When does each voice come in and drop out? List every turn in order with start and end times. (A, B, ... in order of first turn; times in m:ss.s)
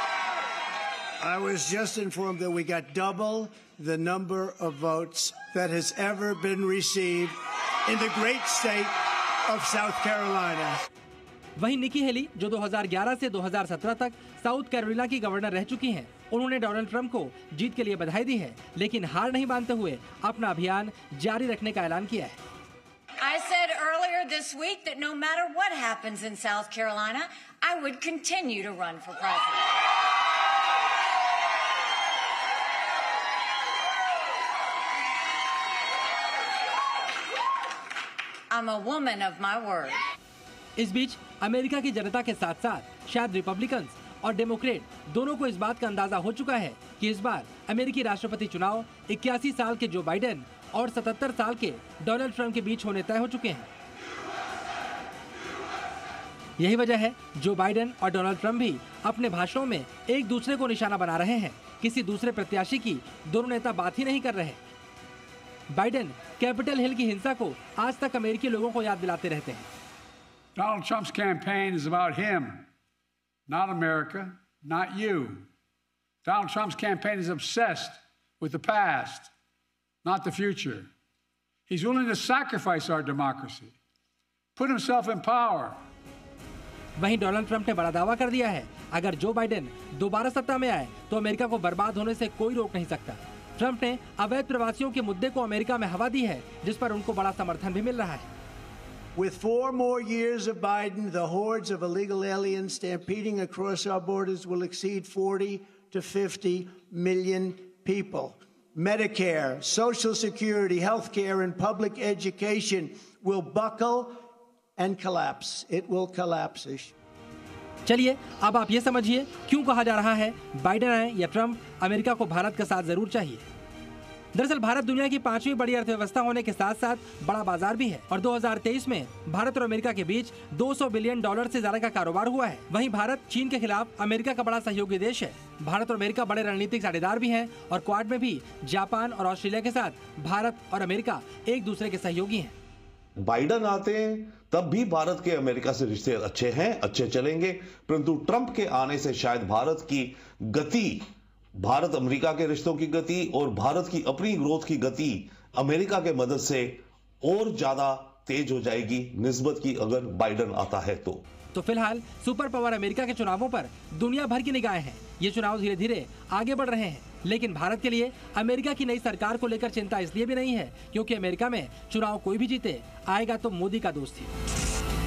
0:01.2-0:10.8 A
0:11.6-0:22.4 B
0:23.2-0:29.7 C
0:38.5-0:40.0 C
0:40.8-0:53.7 B
0:56.6-1:04.6 B
1:05.7-1:09.7 B
1:10.6-1:12.6 D
1:13.5-1:15.5 D
1:16.2-1:19.3 D
1:20.0-1:20.9 D
1:21.7-1:23.7 D
1:24.6-1:25.8 D
1:27.0-1:38.3 B
1:39.1-1:56.9 A
1:57.8-2:03.4 B
2:04.3-2:22.5 B
2:23.2-2:31.1 E
2:31.6-2:41.2 E
2:41.5-2:54.3 B